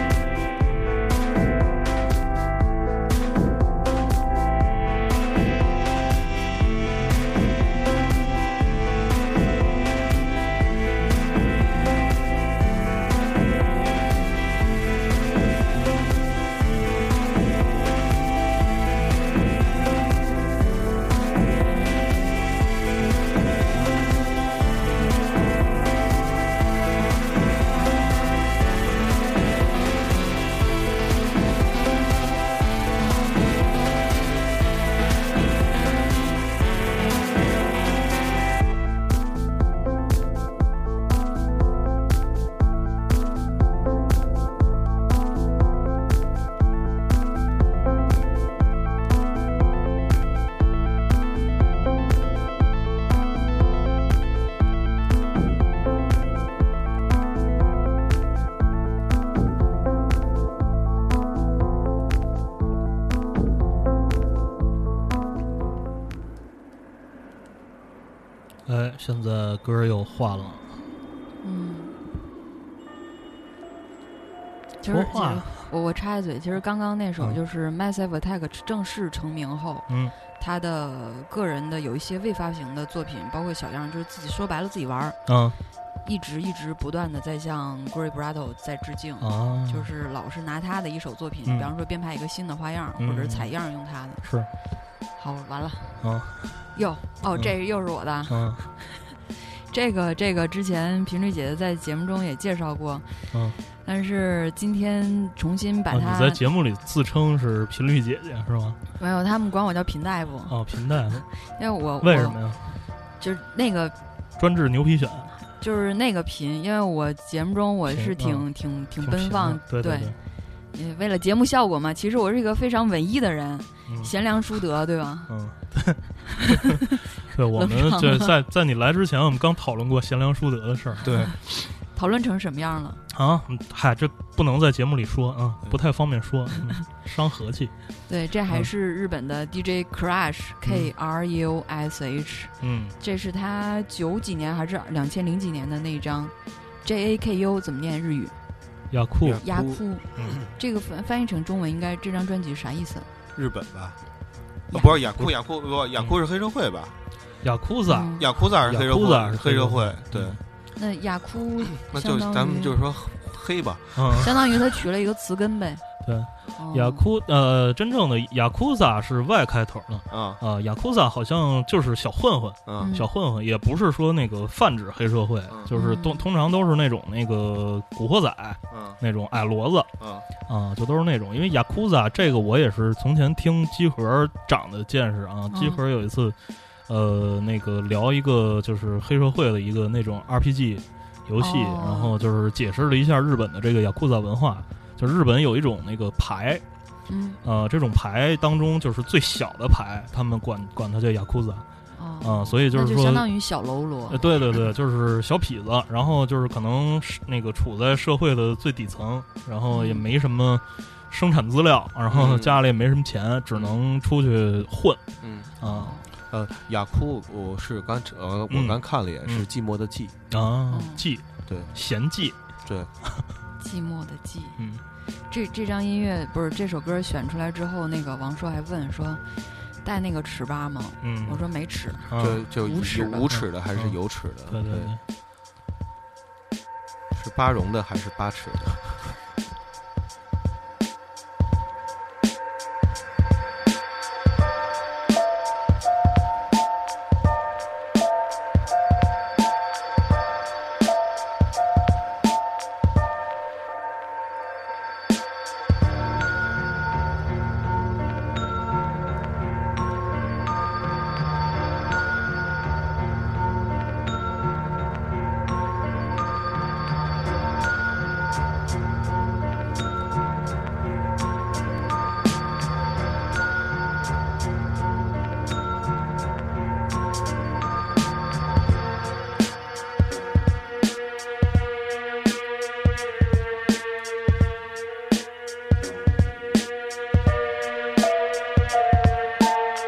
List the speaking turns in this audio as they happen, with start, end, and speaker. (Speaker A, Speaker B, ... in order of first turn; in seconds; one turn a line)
Speaker A: 68.7-70.7
Speaker B: 71.4-71.9
Speaker B: 74.8-85.2
Speaker A: 74.9-75.7
Speaker A: 79.9-80.1
Speaker A: 85.3-85.6
Speaker B: 86.0-94.2
Speaker A: 89.2-89.9
Speaker A: 91.5-91.7
Speaker A: 93.0-93.5
Speaker A: 94.2-94.5
Speaker B: 95.2-96.0
Speaker A: 96.0-96.6
Speaker B: 96.7-103.3
Speaker A: 98.3-98.6
Speaker A: 103.3-103.6
Speaker B: 103.8-106.4
Speaker A: 105.9-108.8
Speaker B: 109.0-110.6
Speaker A: 110.5-111.2
Speaker B: 111.4-112.4
Speaker A: 112.0-112.7
Speaker B: 113.2-113.9
Speaker A: 114.4-115.3
Speaker B: 115.6-120.1
Speaker A: 117.9-120.1
Speaker B: 120.7-125.3
Speaker A: 123.9-124.1
Speaker A: 125.3-131.2
Speaker B: 126.4-127.0
Speaker B: 127.5-128.3
Speaker C: 131.0-131.3
Speaker B: 131.9-133.0
Speaker A: 133.1-137.7
Speaker B: 138.1-148.3
Speaker A: 140.7-140.9
Speaker A: 142.6-143.0
Speaker A: 148.9-149.4
Speaker C: 149.2-149.8
Speaker B: 149.4-153.1
Speaker C: 153.3-154.0
Speaker C: 154.7-157.0
Speaker A: 157.4-160.4
Speaker B: 157.8-158.2
Speaker C: 158.2-160.4
Speaker B: 160.8-162.8
Speaker C: 161.8-164.3
Speaker A: 163.9-164.3
Speaker B: 164.1-165.8
Speaker A: 166.0-179.9
Speaker B: 166.6-167.0
Speaker C: 170.1-170.4
Speaker B: 172.8-173.1
Speaker B: 175.7-176.2
Speaker C: 178.7-179.0
Speaker C: 180.0-180.3
Speaker A: 180.5-186.3
Speaker B: 185.5-185.8
Speaker A: 186.9-196.6
Speaker B: 191.4-192.2
Speaker B: 197.1-197.4
Speaker A: 197.4-201.6
Speaker B: 201.9-204.2
Speaker A: 202.2-203.2
Speaker A: 204.1-215.0
Speaker B: 209.7-210.1
Speaker C: 212.1-212.6
Speaker C: 213.5-213.8
Speaker C: 215.2-215.5
Speaker A: 215.6-215.9
Speaker B: 215.6-216.1
Speaker C: 216.3-220.2
Speaker A: 218.5-219.4
Speaker A: 220.3-222.4
Speaker B: 220.7-221.1
Speaker C: 221.5-221.7
Speaker C: 222.7-222.9
Speaker B: 223.6-224.6
Speaker A: 224.6-224.8
Speaker B: 225.3-229.2
Speaker B: 229.8-233.2
Speaker A: 231.0-231.4
Speaker A: 232.1-233.9
Speaker C: 232.2-234.9
Speaker A: 234.5-235.0
Speaker C: 237.1-239.2